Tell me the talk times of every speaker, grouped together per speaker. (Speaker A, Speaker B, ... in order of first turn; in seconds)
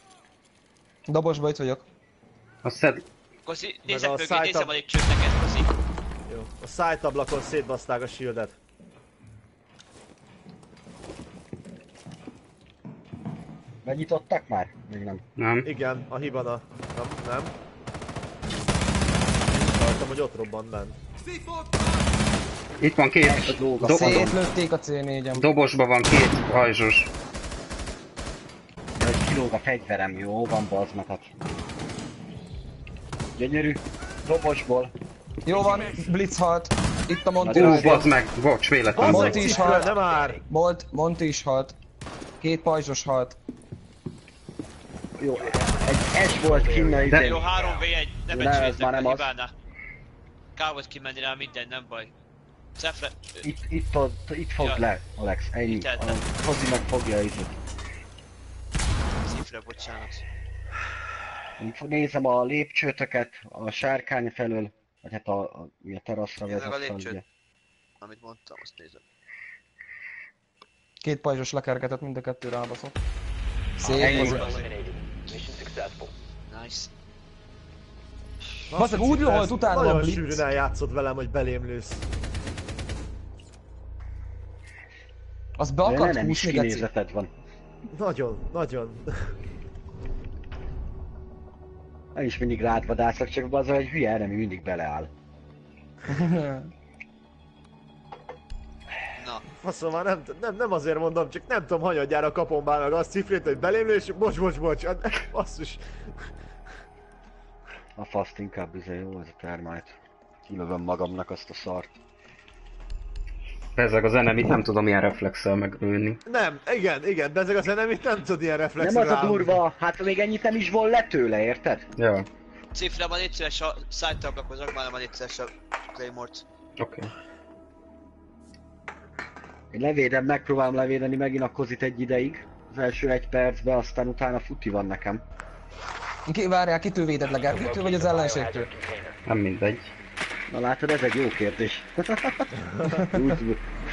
Speaker A: 1.1-1.8, 23.8-25.4, 35.4-38.0, 39.0-41.8, 42.4-43.4, 71.0-72.9, 73.8-74.4, 78.7-80.5, 85.6-86.9, 96.1-96.7, 136.3-138.7
Speaker B: 2.6-3.0, 15.4-15.7, 22.8-24.3, 25.3-27.1, 37.5-39.5, 47.1-47.4, 113.8-116.2, 122.0-122.3, 126.8-127.1, 139.2-139.9
Speaker C: 3.5-5.7, 47.1-49.5, 50.5-52.1, 52.8-53.5, 54.6-54.9, 55.6-56.2, 59.2-60.2, 66.5-67.2, 68.0-69.0, 74.0-74.6, 76.5-76.9, 99.2-99.4, 122.7-126.4
Speaker D: 3.9-4.7, 6.3-8.6, 15.6-17.5, 19.5-21.0, 39.0-40.4, 78.7-82.0, 87.9-89.3, 99.5-106.3, 116.2-119.6, 142.6-142.9
Speaker E: 13.8-15.2, 23.2-24.4, 29.0-31.4, 33.4-34.9, 37.4-38.1, 45.2-47.5, 48.3-49.3, 53.4-57.5, 61.6-67.2, 74.0-74.4, 85.8-87.3, 92.1-95.1, 108.0-111.9, 118.8-121.8, 129.7-135.2, 140.5-142.5, 143.1-143.7
Speaker F: 39.1-40.4, 45.3-47.9, 73.8-76.1, 137.3-139.2